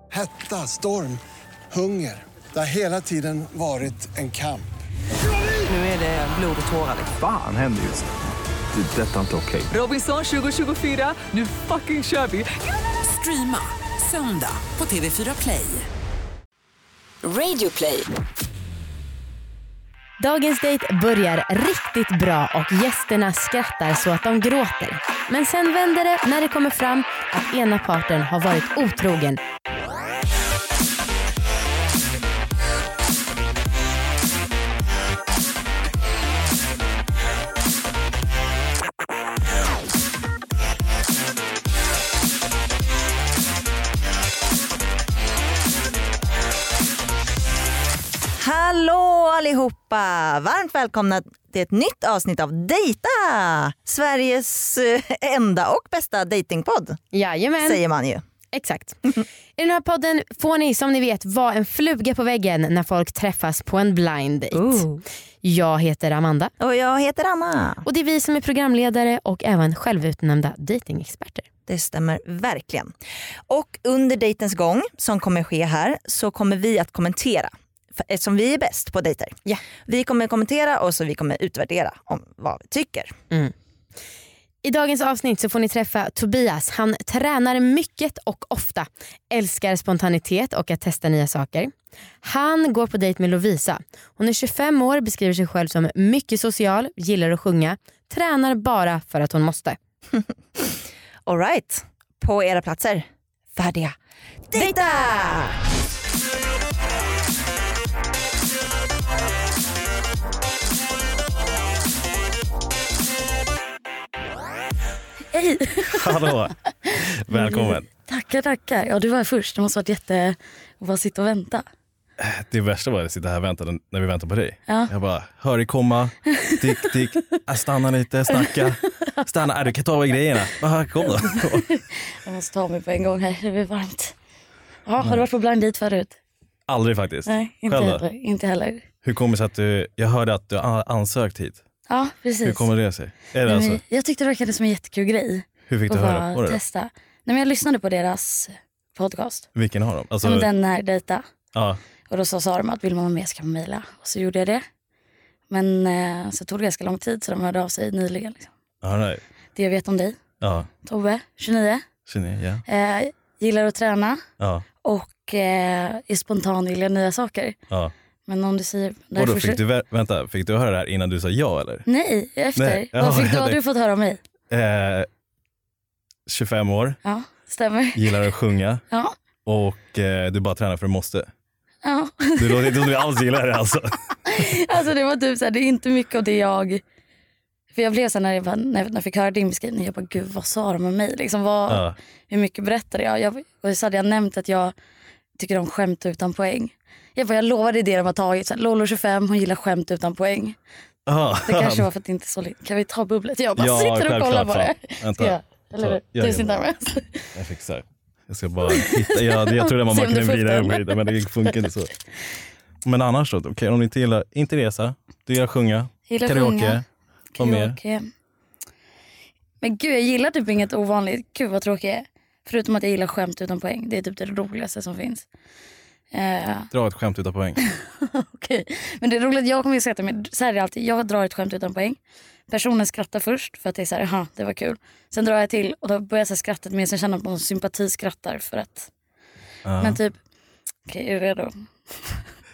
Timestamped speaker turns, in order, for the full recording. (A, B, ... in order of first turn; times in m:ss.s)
0:00.1-0:04.7 A
0:05.7-0:07.2 B
0:07.2-0:08.1 C
0:08.7-0:09.7 C
0:09.7-0:12.5 B
0:13.0-0:15.9 B
0:17.2-0:18.1 B
0:20.2-0:29.4 D
0:48.4-0:57.0 E
0:57.1-0:57.8 D
0:57.6-0:58.2 E
0:58.5-0:59.0 D
0:59.6-1:04.9 D
1:04.5-1:05.0 E
1:05.4-1:06.5 D
1:06.6-1:07.8 E
1:07.8-1:11.4 D
1:11.7-1:12.9 E
1:13.5-1:23.1 E
1:24.6-1:39.8 D
1:40.1-1:40.7 E
1:41.3-1:44.0 E
1:44.5-1:45.6 E
1:55.3-1:56.2 F
1:55.9-1:57.9 G
1:57.3-2:01.6 F
2:02.2-2:11.8 G
2:06.4-2:06.9 F
2:08.4-2:08.7 F
2:11.3-2:14.2 F
2:14.9-2:16.2 F
2:16.7-2:18.0 G
2:17.3-2:18.9 F
2:19.0-2:21.6 G
2:21.9-2:22.7 F
2:22.4-2:23.8 G
2:23.5-2:29.5 F
2:25.7-2:26.6 G
2:29.6-2:30.5 G
2:30.2-2:31.2 F
2:32.1-2:34.6 F
2:35.5-2:38.5 F
2:38.8-2:39.2 G
2:39.6-2:40.2 F
2:40.4-2:40.7 G
2:40.8-2:41.8 F
2:42.1-2:42.6 G
2:42.7-2:44.2 F
2:44.4-2:44.7 G
2:44.8-2:47.6 F
2:48.3-2:49.6 F
2:49.2-2:51.9 G
2:51.9-2:54.2 F
2:52.6-2:53.6 G
2:54.5-2:55.1 G
2:56.3-2:57.0 G
2:57.0-2:58.2 F
2:58.0-2:58.8 G
2:59.5-3:01.3 G
3:01.8-3:02.9 F
3:02.4-3:04.5 G
3:04.3-3:06.8 F
3:07.7-3:14.7 F
3:11.7-3:12.0 G
3:15.4-3:20.6 F
3:21.1-3:21.9 G
3:21.5-3:27.3 F
3:23.6-3:26.6 G
3:27.4-3:31.9 G
3:28.7-3:31.6 F
3:32.8-3:36.8 G
3:36.1-3:36.8 F
3:37.4-3:38.1 F
3:37.4-3:37.8 G
3:39.6-3:45.3 F
3:46.1-3:46.7 F
3:46.7-3:47.6 G
3:47.6-3:52.0 F
3:52.5-3:58.9 F
3:59.6-4:00.0 G
3:59.8-4:00.2 F
4:00.9-4:02.2 F